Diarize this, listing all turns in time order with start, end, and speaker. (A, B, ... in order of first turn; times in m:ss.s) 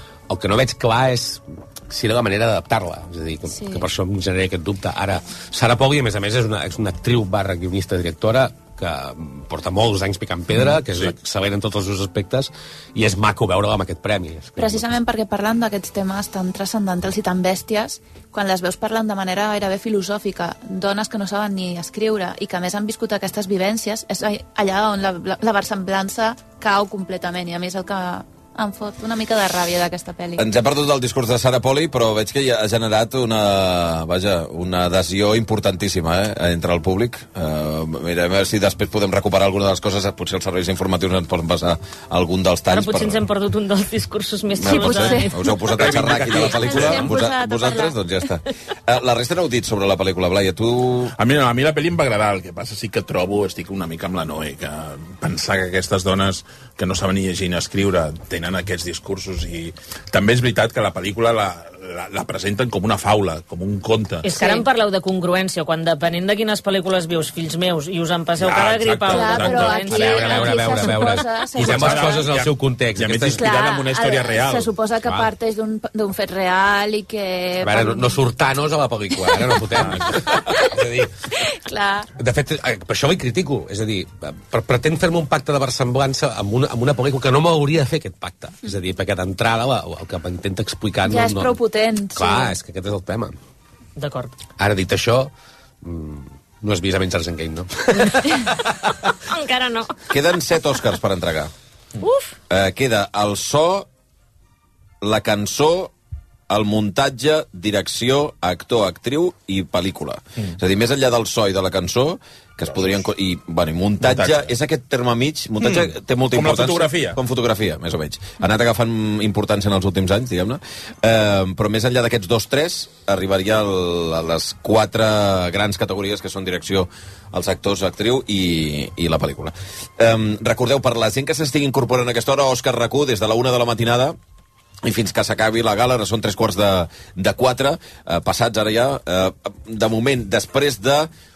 0:00.3-0:15.0 A
0:03.5-0:03.9 B
0:10.5-0:10.8 C
0:14.6-0:30.4 B
0:30.4-0:43.2 D
0:42.7-0:45.4 E
0:44.6-0:51.1 D
0:44.6-0:45.6 B
0:45.8-0:46.8 A
0:46.0-0:47.1 C
0:46.2-0:48.0 B
0:51.2-1:04.3 C
1:04.2-1:10.8 E
1:04.3-1:04.6 B
1:08.4-1:10.0 C
1:09.1-1:12.4 B
1:09.8-1:13.5 A
1:11.6-1:14.7 C
1:13.3-1:18.3 B
1:15.0-1:15.3 A
1:17.6-1:21.1 A
1:19.1-1:20.8 B
1:21.4-1:22.1 B
1:22.2-1:31.6 A
1:31.0-1:32.6 B
1:32.1-1:33.4 A
1:34.0-1:34.3 E
1:34.6-1:38.9 A
1:39.3-1:39.9 E
1:40.1-1:41.5 D
1:42.0-1:42.3 E
1:42.5-1:43.9 D
1:45.0-1:45.9 D
1:46.5-2:14.2 D
1:54.0-1:54.5 C
1:55.6-1:57.2 C
2:14.8-2:21.1 D